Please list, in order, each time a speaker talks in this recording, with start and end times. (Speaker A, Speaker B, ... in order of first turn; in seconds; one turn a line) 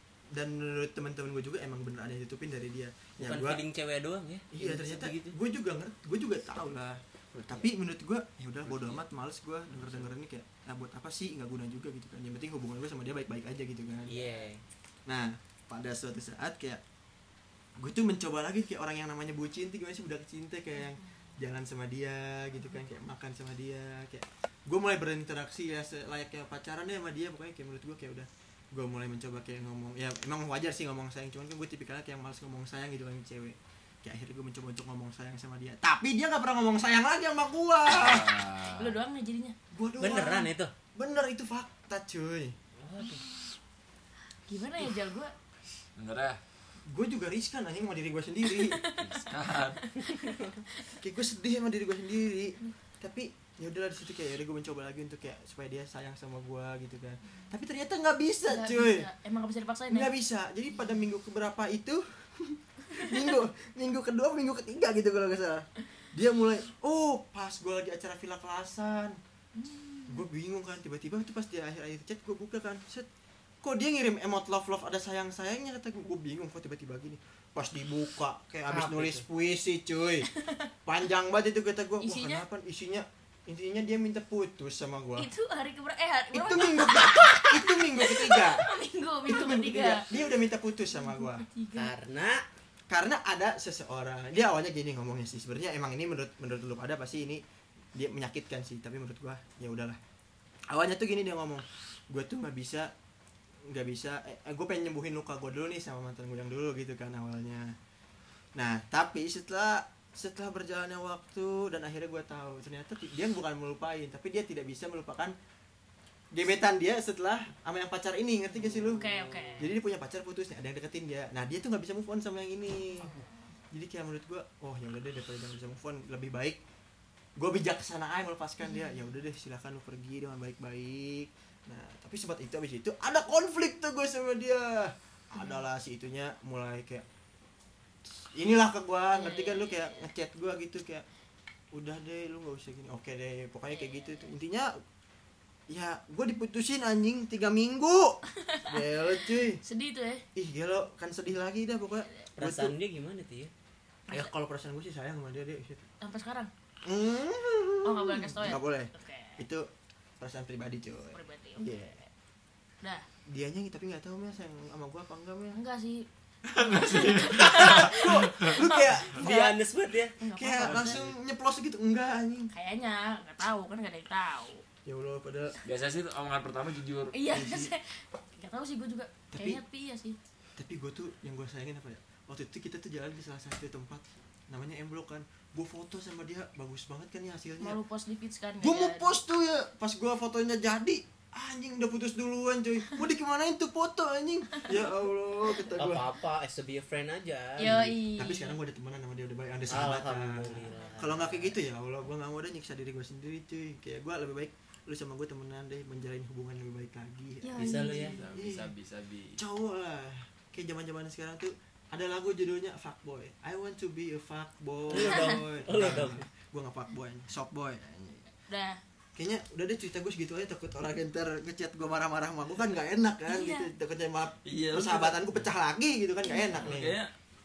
Speaker A: 0.3-3.6
Speaker B: 3.2-5.3
Speaker A: 4.5-14.2
Speaker B: 7.3-7.7
Speaker B: 8.7-9.0
Speaker B: 14.1-14.6
Speaker A: 15.1-16.8
Speaker A: 17.8-38.5
Speaker C: 37.9-39.0
Speaker D: 38.7-39.5
Speaker A: 39.7-42.5
Speaker B: 40.0-40.7
Speaker B: 42.8-43.2
Speaker D: 44.5-45.3
Speaker C: 46.0-46.4
Speaker A: 46.9-48.8
Speaker D: 48.7-50.9
Speaker C: 48.9-49.8
Speaker A: 51.0-59.1
Speaker D: 58.5-60.1
Speaker A: 59.9-69.2
Speaker D: 69.6-70.2
Speaker A: 70.1-73.1
Speaker A: 73.6-80.3
Speaker B: 78.7-79.2
Speaker A: 80.8-85.3
Speaker D: 82.0-82.5
Speaker D: 85.2-90.1
Speaker A: 86.3-88.7
Speaker A: 89.2-91.5
Speaker D: 90.9-91.9
Speaker B: 91.8-92.4
Speaker A: 92.9-97.4
Speaker A: 98.0-100.0
Speaker A: 100.7-102.9
Speaker A: 103.7-107.8
Speaker A: 108.5-115.4
Speaker A: 116.3-123.1
Speaker D: 118.9-119.8
Speaker A: 123.7-126.6
Speaker A: 127.4-137.1
Speaker D: 128.6-128.9
Speaker A: 138.3-141.1
Speaker D: 139.1-140.1
Speaker A: 141.7-144.7
Speaker D: 143.8-144.1
Speaker A: 145.7-149.6
Speaker D: 149.6-150.2
Speaker A: 150.4-152.8
Speaker B: 152.4-153.5
Speaker A: 154.1-155.8
Speaker D: 156.0-156.5
Speaker A: 156.8-159.7
Speaker D: 157.8-159.4
Speaker A: 160.2-162.0
Speaker D: 160.9-161.8
Speaker A: 163.3-165.6
Speaker D: 165.5-169.2
Speaker C: 166.5-169.2
Speaker A: 167.3-169.6
Speaker B: 169.1-170.1
Speaker D: 170.2-171.0
Speaker A: 170.3-172.5
Speaker C: 170.6-171.1
Speaker D: 172.5-174.6
Speaker A: 174.8-175.6
Speaker C: 175.6-177.2
Speaker D: 177.1-180.2
Speaker A: 177.3-177.7
Speaker A: 179.3-179.6
Speaker A: 180.6-187.8
Speaker D: 187.6-189.2
Speaker A: 188.6-196.1
Speaker B: 195.7-198.0
Speaker D: 197.6-198.6
Speaker A: 198.2-208.7
Speaker B: 199.7-201.6
Speaker D: 207.4-208.1
Speaker B: 207.6-208.2
Speaker C: 208.0-209.4
Speaker A: 209.3-218.3
Speaker B: 214.9-216.2
Speaker D: 218.5-218.8
Speaker A: 219.2-227.0
Speaker D: 223.3-223.7
Speaker C: 224.4-225.2
Speaker D: 226.2-226.8
Speaker C: 226.6-227.1